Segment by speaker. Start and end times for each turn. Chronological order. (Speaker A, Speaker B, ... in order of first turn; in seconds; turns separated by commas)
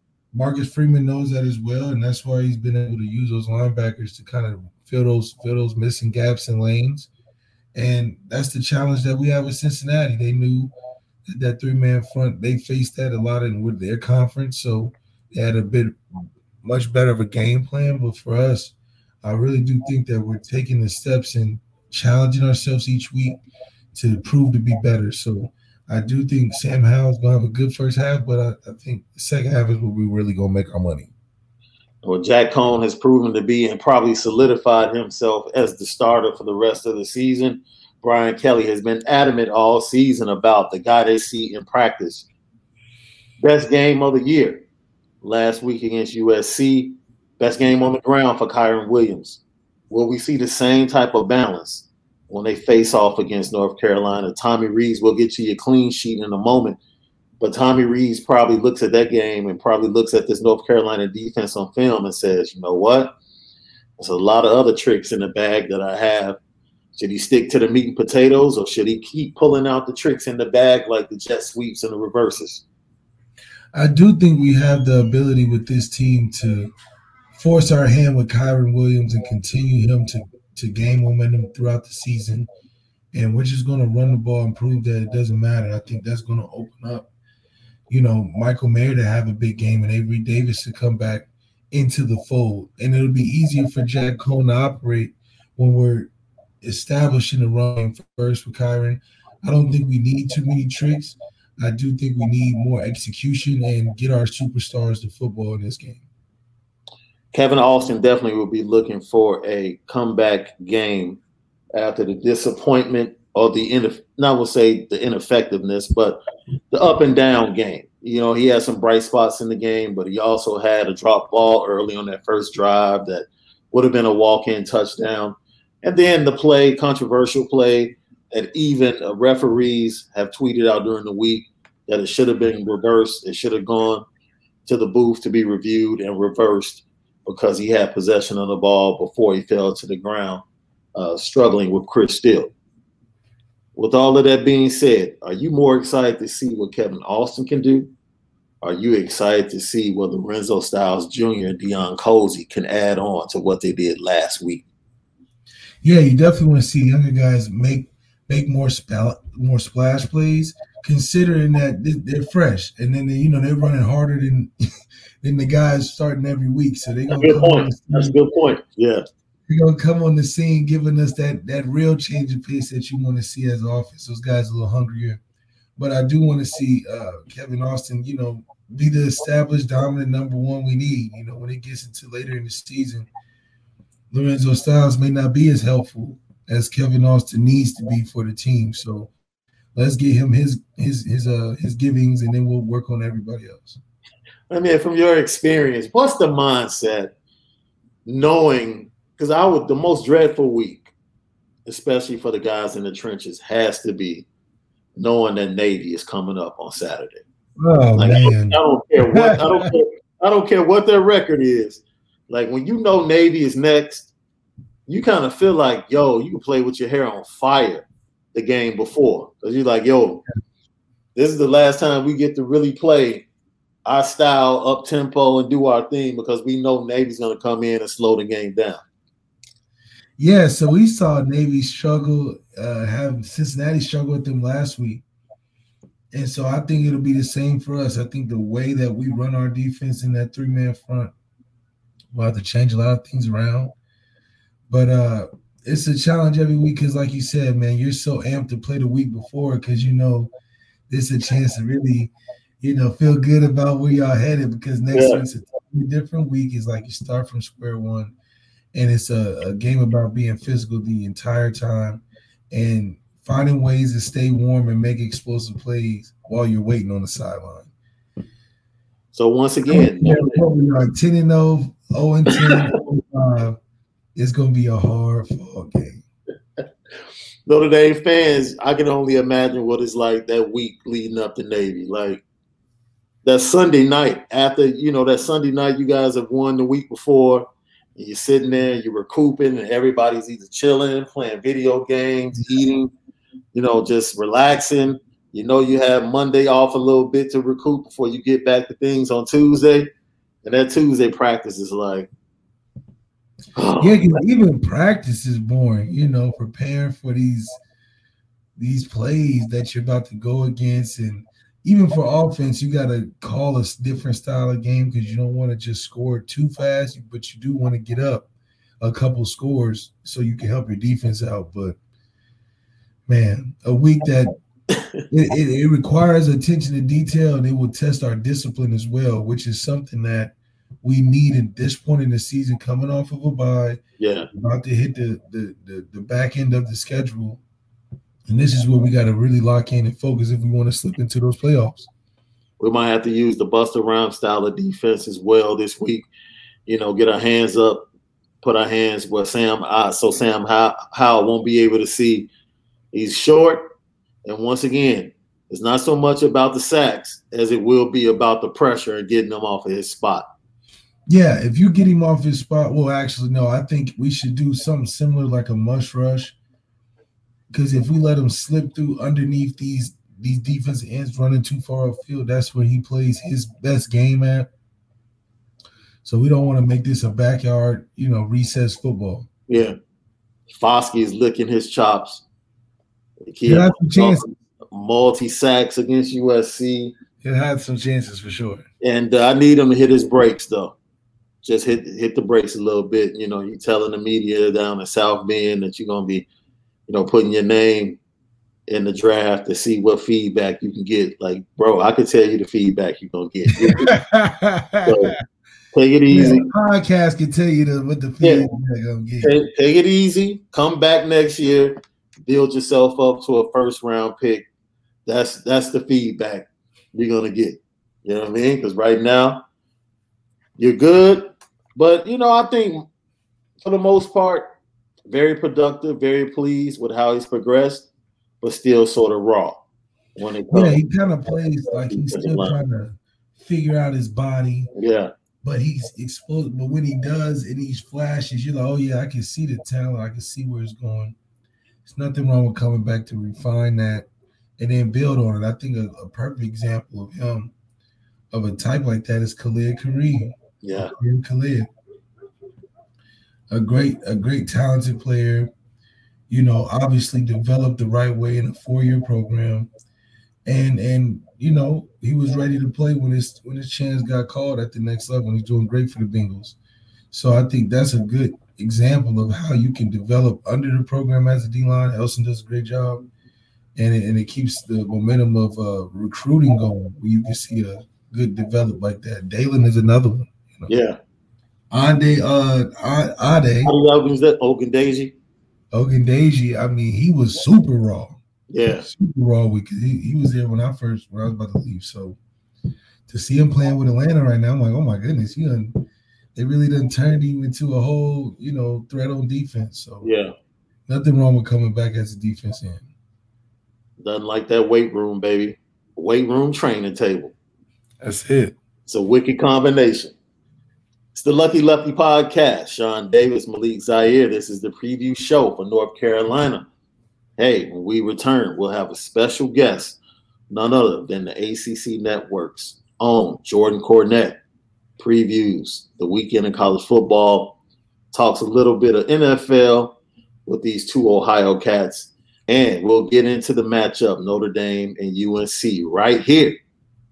Speaker A: 0.3-7.1, Speaker A: 7.8-10.7, Speaker A: 11.3-16.0, Speaker A: 16.6-23.4, Speaker A: 23.9-31.1, Speaker B: 32.0-42.3, Speaker B: 43.4-44.6, Speaker B: 45.2-56.8, Speaker B: 57.4-63.1, Speaker B: 64.0-66.4, Speaker B: 67.0-72.6, Speaker A: 73.7-76.7, Speaker A: 77.3-82.5, Speaker A: 83.1-87.1, Speaker A: 87.9-96.1, Speaker A: 96.6-106.0, Speaker B: 107.3-111.2, Speaker B: 111.7-116.2, Speaker B: 116.7-134.1, Speaker B: 134.7-142.5, Speaker B: 143.8-147.9, Speaker B: 148.6-154.7, Speaker A: 155.8-164.5, Speaker A: 165.2-168.2, Speaker B: 167.2-169.1, Speaker A: 169.5-175.2, Speaker A: 175.8-183.1, Speaker A: 184.1-189.1, Speaker A: 189.8-193.8, Speaker B: 194.5-197.1, Speaker B: 198.1-200.9, Speaker B: 201.7-204.3, Speaker B: 205.0-207.2, Speaker A: 207.6-209.7, Speaker B: 208.0-214.1, Speaker B: 214.9-220.2, Speaker B: 221.2-223.3, Speaker B: 223.8-228.8, Speaker A: 230.2-235.0, Speaker A: 236.1-241.1, Speaker A: 242.1-243.7, Speaker A: 244.7-250.3, Speaker A: 250.9-258.1, Speaker B: 254.9-255.2, Speaker A: 258.7-267.7, Speaker B: 269.1-270.4, Speaker A: 269.7-273.6, Speaker B: 272.3-272.6, Speaker A: 274.2-276.0, Speaker B: 277.5-282.2, Speaker B: 283.2-292.9, Speaker B: 293.5-299.9, Speaker B: 300.4-302.1, Speaker B: 303.6-304.2, Speaker A: 303.8-307.6, Speaker A: 308.6-318.3, Speaker A: 318.8-321.8, Speaker A: 323.1-324.3, Speaker B: 324.7-325.0, Speaker A: 325.1-333.8, Speaker B: 334.0-334.3, Speaker A: 334.3-337.4, Speaker A: 338.3-341.9, Speaker B: 342.6-346.1, Speaker B: 346.7-347.9, Speaker B: 348.4-352.3, Speaker B: 352.9-353.7, Speaker B: 354.2-360.3, Speaker A: 361.1-366.4, Speaker A: 367.5-374.5, Speaker A: 376.0-379.3, Speaker B: 379.5-379.8, Speaker B: 380.5-382.2, Speaker B: 383.3-386.9, Speaker A: 383.5-384.2, Speaker A: 387.2-388.7, Speaker B: 388.8-390.8, Speaker B: 391.4-396.3, Speaker B: 396.9-398.0, Speaker B: 398.7-403.9, Speaker A: 403.6-405.1, Speaker B: 404.9-405.2, Speaker B: 405.7-406.5, Speaker A: 406.1-409.3, Speaker B: 408.2-408.5, Speaker B: 409.2-414.5, Speaker B: 415.1-419.4, Speaker B: 420.6-422.9, Speaker B: 423.6-424.5, Speaker B: 425.1-427.9, Speaker B: 428.4-429.6, Speaker B: 430.2-430.8, Speaker A: 430.5-434.7, Speaker B: 431.7-432.6, Speaker B: 434.7-435.1, Speaker A: 435.4-441.2, Speaker A: 441.9-444.1, Speaker A: 444.6-447.5, Speaker A: 448.3-451.7, Speaker B: 450.6-450.9, Speaker A: 453.5-455.5, Speaker A: 456.3-459.7, Speaker A: 460.5-466.6, Speaker A: 467.1-473.1, Speaker A: 473.8-480.7, Speaker B: 480.7-481.0, Speaker A: 481.7-483.7, Speaker B: 483.6-485.1, Speaker A: 485.7-488.2, Speaker B: 488.5-488.9, Speaker A: 488.8-492.2, Speaker A: 493.1-500.1, Speaker B: 500.0-500.3, Speaker A: 500.9-502.9, Speaker B: 504.0-507.4, Speaker A: 508.0-508.6, Speaker B: 508.9-510.1, Speaker B: 511.1-516.7, Speaker B: 517.4-520.0, Speaker B: 520.5-524.4, Speaker B: 525.0-527.6, Speaker B: 528.1-536.6